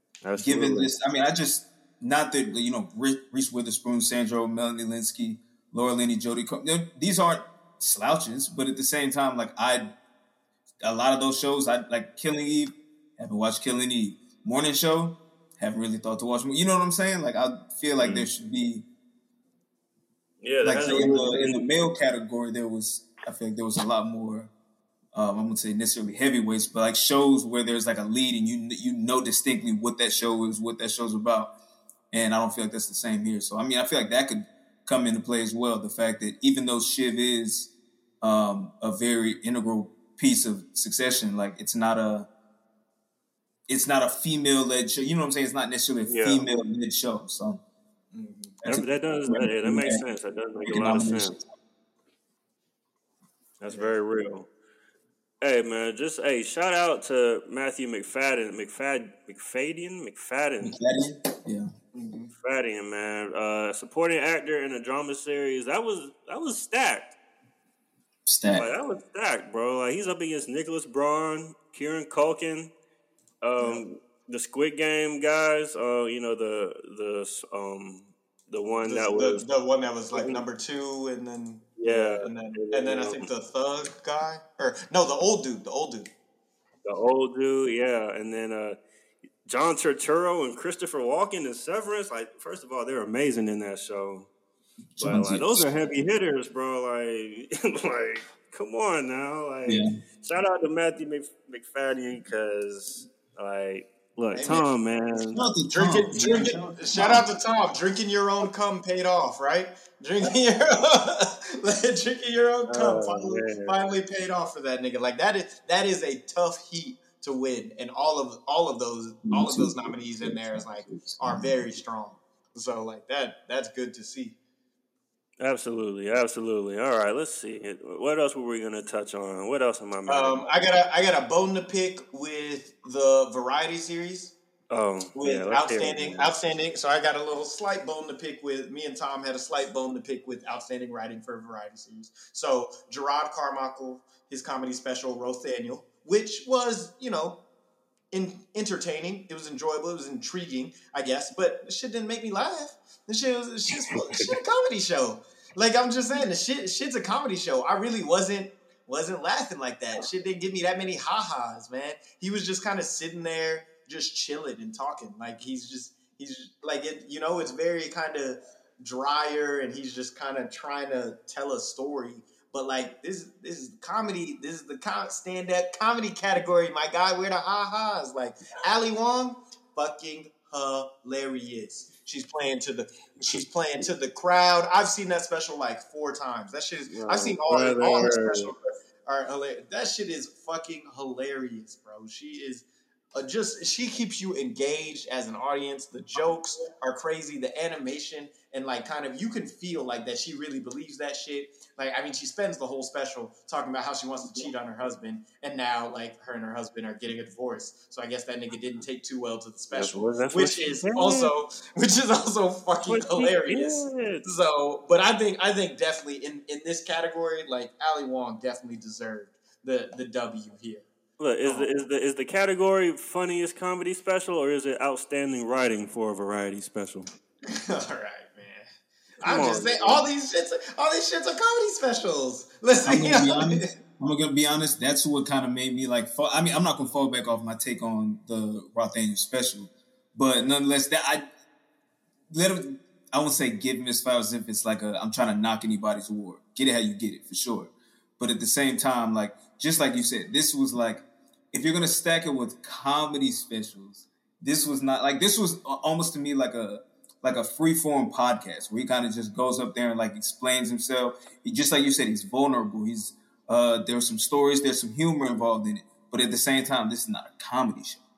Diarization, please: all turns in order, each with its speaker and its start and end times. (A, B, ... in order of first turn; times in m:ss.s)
0:00.2-0:00.9 A
0:00.4-0:09.9 B
0:10.8-0:18.8 B
0:18.0-0:18.3 A
0:20.4-0:21.7 A
0:20.6-0:24.5 B
0:25.1-0:31.5 B
0:32.1-0:42.3 B
0:43.7-0:47.6 B
0:46.1-0:46.5 A
0:48.1-0:48.6 C
0:48.6-0:50.0 B
0:48.7-0:51.4 A
0:50.6-0:51.4 B
0:53.6-0:54.5 A
0:53.7-0:54.0 C
0:55.4-1:00.8 A
1:00.6-1:01.7 B
1:01.9-1:02.3 C
1:02.4-1:07.1 A
1:08.3-1:08.7 B
1:08.5-1:12.7 A
1:13.4-1:19.4 A
1:13.6-1:13.8 C
1:18.8-1:26.1 C
1:20.1-1:20.4 A
1:21.8-1:23.3 A
1:26.8-1:28.8 A
1:29.5-1:34.3 A
1:35.0-1:35.7 B
1:35.0-1:45.5 A
1:44.3-1:44.7 C
1:45.3-1:47.2 B
1:45.7-2:04.4 C
1:52.7-1:53.8 A
1:59.3-2:01.7 B
2:05.4-2:10.4 A
2:10.1-2:14.4 C
2:14.7-2:16.3 A
2:15.2-2:27.4 C
2:28.1-3:40.9 C
2:33.8-2:34.3 A
3:06.9-3:08.5 A
3:29.7-3:31.3 A
3:32.9-3:34.3 A
3:41.2-3:47.1 A
3:41.4-3:41.7 C
3:47.5-3:48.7 C
3:49.2-3:53.7 C
3:49.2-3:50.1 A
3:52.9-4:01.2 B
4:02.3-4:28.0 B